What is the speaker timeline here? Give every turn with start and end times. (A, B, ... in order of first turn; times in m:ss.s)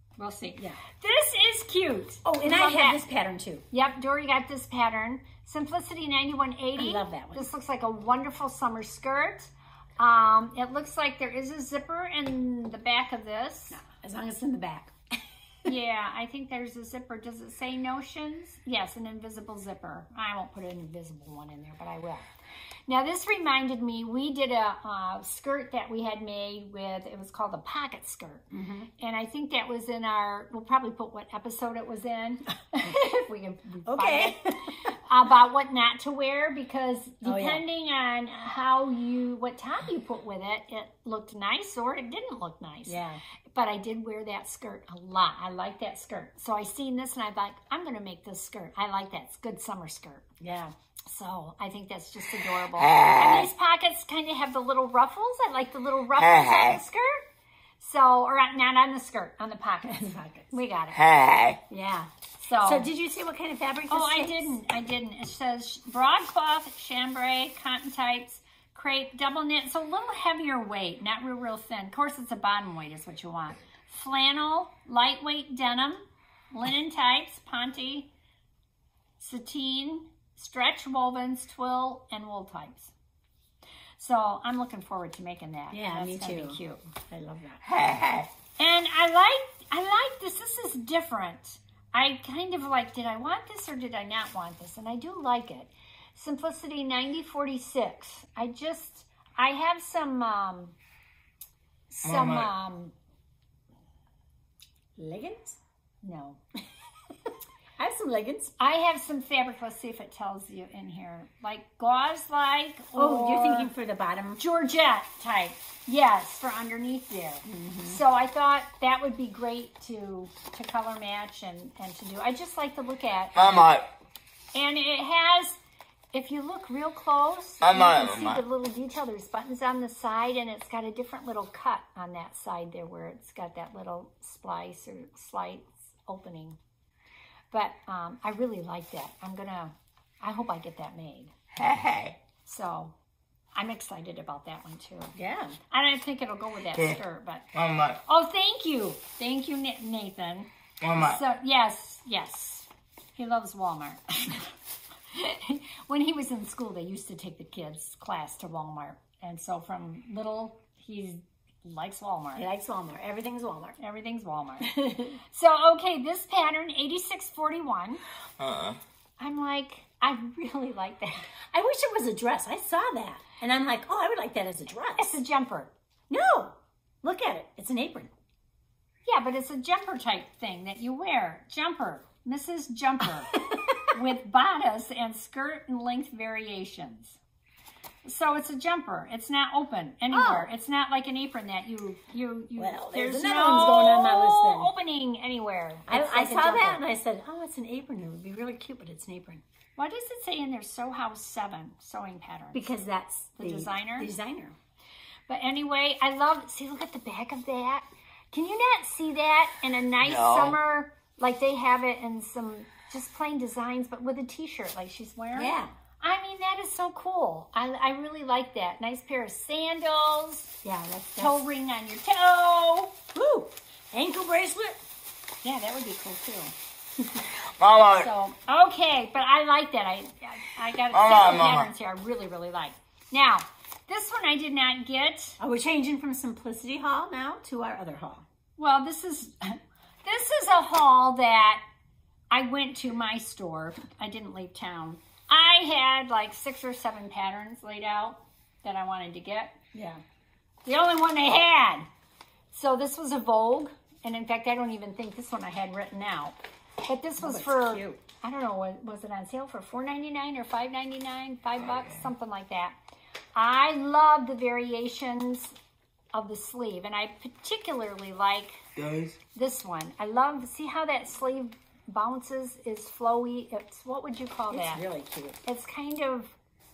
0:00.2-0:03.0 A
0:02.2-0:03.6 B
0:03.7-0:13.8 A
0:06.8-0:07.5 B
0:13.8-0:15.0 B
0:15.6-0:22.3 A
0:22.9-0:28.5 A
0:28.5-0:28.9 B
0:29.0-0:43.0 A
0:33.8-0:34.9 B
0:37.2-0:37.6 B
0:42.8-0:43.2 B
0:43.5-0:50.2 A
0:50.4-0:50.7 B
0:51.0-0:57.2 A
0:52.8-0:53.5 C
0:56.2-0:56.8 C
0:57.8-1:01.0 A
0:59.8-1:00.6 B
1:00.9-1:01.6 C
1:01.7-1:04.6 B
1:02.4-1:02.9 A
1:03.9-1:18.1 A
1:19.2-1:22.9 A
1:24.0-1:26.9 A
1:25.7-1:27.6 B
1:27.6-1:28.3 C
1:28.6-1:40.7 A
1:41.9-1:42.9 A
1:42.0-1:42.5 C
1:45.0-1:45.6 B
1:46.0-1:46.4 A
1:47.8-1:48.5 B
1:48.6-1:53.7 A
1:52.9-1:54.4 B
1:54.4-2:03.7 A
1:57.4-1:58.0 B
2:03.3-2:03.9 C
2:04.5-2:05.6 A
2:06.1-2:16.6 A
2:07.6-2:08.4 C
2:17.5-2:21.3 A
2:21.6-2:22.2 C
2:22.4-2:22.9 A
2:23.5-2:25.1 A
2:25.1-2:25.6 B
2:25.7-2:27.4 A
2:27.5-2:28.0 C
2:28.0-2:34.5 A
2:30.8-2:31.2 C
2:35.1-2:42.4 A
2:42.4-2:43.8 B
2:43.8-2:44.7 A
2:44.6-2:45.2 B
2:45.3-2:48.0 A
2:48.4-2:48.8 C
2:49.2-2:51.3 A
2:51.5-2:55.2 B
2:55.0-2:55.7 A
2:56.1-2:58.1 B
2:59.0-3:07.2 A
3:08.0-3:16.8 A
3:10.1-3:10.5 B
3:12.6-3:14.7 B
3:15.9-3:19.4 B
3:19.8-3:22.8 A
3:22.5-3:24.6 B
3:23.4-3:24.1 A
3:25.3-3:40.5 A
3:30.0-3:30.6 C
3:35.4-3:35.7 B
3:40.6-3:41.4 B
3:41.2-3:43.0 A
3:43.1-3:44.8 B
3:45.4-3:46.5 A
3:47.2-3:48.1 C
3:47.9-3:48.4 B
3:48.5-3:55.4 A
3:50.9-3:51.7 C
3:55.4-3:58.2 B
3:58.6-4:01.6 A
4:02.3-4:09.6 A
4:09.7-4:10.0 B
4:10.6-4:11.9 A
4:12.5-4:22.7 A
4:17.2-4:18.0 B
4:23.4-4:25.6 A
4:26.1-4:28.6 A
4:28.8-4:29.2 C
4:29.3-4:34.8 A
4:34.5-4:35.4 B
4:35.4-4:36.3 A